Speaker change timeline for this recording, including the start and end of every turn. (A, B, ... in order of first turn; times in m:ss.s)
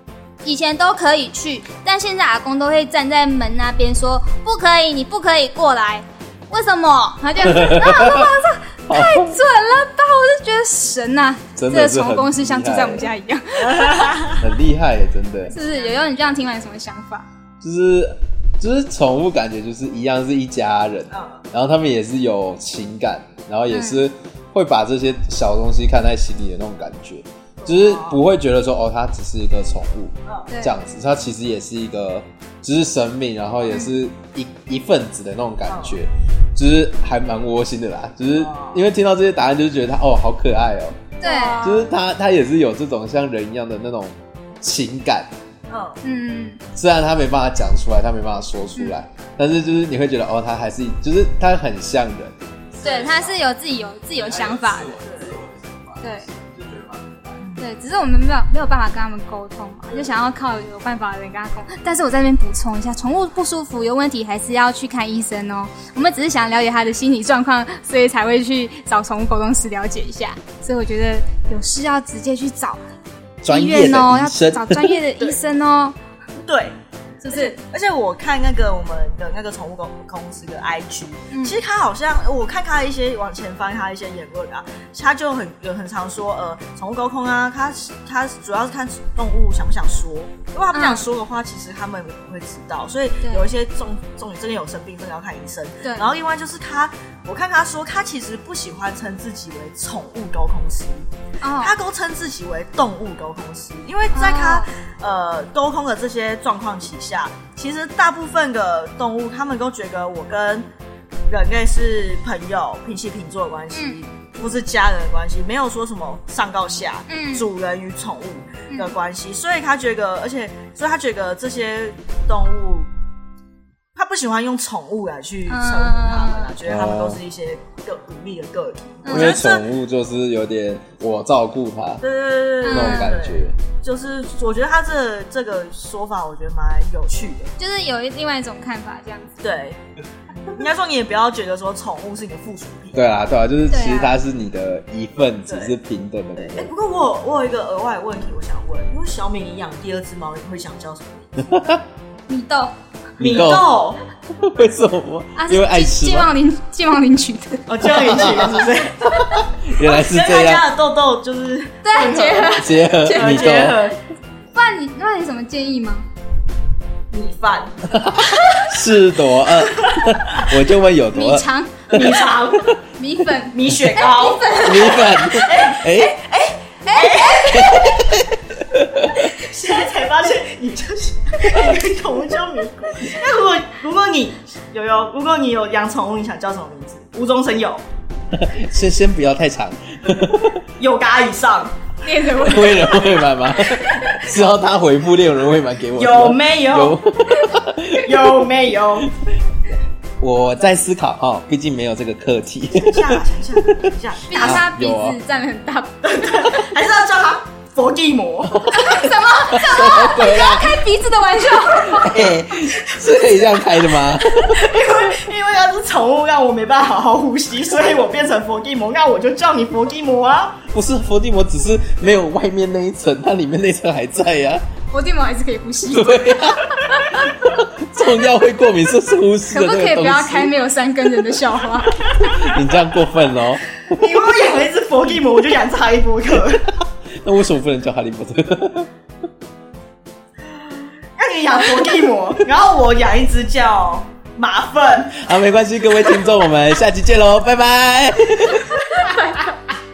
0:00.4-0:14.3 A
0:07.4-0:08.3 B
0:08.9-0:09.4 B
0:11.6-0:13.1 B
0:13.6-0:14.4 C
0:14.4-0:15.5 B
0:15.5-0:17.2 A
0:15.5-0:16.0 C
0:17.6-0:45.3 B
0:21.1-0:21.4 C
0:23.7-0:24.0 A
0:27.6-0:28.2 C
0:30.5-0:30.8 A
0:35.7-0:36.0 C
0:38.3-0:38.8 C
0:41.2-0:41.7 A
0:41.2-0:41.9 C
0:45.7-0:46.0 C
0:46.0-0:46.6 A
0:46.7-0:52.3 B
0:52.8-0:53.4 C
0:52.8-0:55.0 A
0:55.0-0:55.4 C
0:56.0-0:56.3 A
0:57.6-1:12.8 A
1:13.4-1:15.0 B
1:13.4-1:16.0 A
1:16.4-1:16.8 C
1:17.2-1:17.6 A
1:17.3-1:41.1 C
1:21.3-1:21.6 A
1:30.7-1:31.0 A
1:41.4-1:41.7 A
1:41.6-1:50.6 C
1:44.1-1:44.7 A
1:51.3-2:02.9 C
1:53.7-1:54.0 A
1:57.1-1:57.4 A
1:58.7-1:58.9 A
2:03.9-2:09.4 C
2:05.5-2:06.5 A
2:06.6-2:07.2 B
2:09.0-2:09.6 A
2:09.1-2:12.0 B
2:12.0-2:17.5 C
2:12.6-2:13.2 A
2:12.7-2:13.5 B
2:17.6-2:19.4 A
2:19.4-2:19.8 C
2:20.4-2:23.1 C
2:22.9-2:26.7 B
2:23.7-2:24.2 A
2:25.5-2:25.7 C
2:26.4-2:31.4 C
2:31.5-2:31.8 B
2:32.3-2:32.7 A
2:33.2-2:33.7 B
2:33.2-2:34.0 C
2:34.4-2:36.3 B
2:35.4-2:38.0 A
2:37.7-2:44.0 C
2:37.8-2:40.7 B
2:41.8-2:43.6 A
2:42.5-2:43.9 B
2:44.5-2:46.0 A
2:47.1-2:47.8 C
2:47.9-2:52.2 B
2:49.6-2:50.1 C
2:51.1-2:52.3 A
2:51.9-2:52.8 C
2:53.0-2:55.1 A
2:53.5-2:58.2 C
2:54.6-2:56.2 B
2:56.8-2:57.5 A
2:57.4-2:59.2 B
2:59.1-3:07.8 C
3:08.3-3:10.6 B
3:10.8-3:11.7 C
3:12.0-3:13.0 A
3:12.4-3:18.2 B
3:13.7-3:14.2 A
3:16.0-3:17.0 C
3:18.0-3:19.1 C
3:20.2-3:23.7 B
3:22.7-3:24.6 C
3:24.3-3:26.0 A
3:24.4-3:25.2 B
3:26.0-3:28.7 C
3:28.5-3:30.8 B
3:28.7-3:32.2 A
3:31.8-3:34.7 B
3:34.5-3:40.6 C
3:40.7-3:44.6 B
3:44.9-3:47.4 A
3:45.9-3:50.5 B
3:49.5-3:52.1 A
3:52.3-3:53.8 B
3:53.9-3:56.6 C
3:57.2-3:58.9 B
4:00.6-4:05.2 C
4:05.1-4:08.7 B
4:08.7-4:09.7 A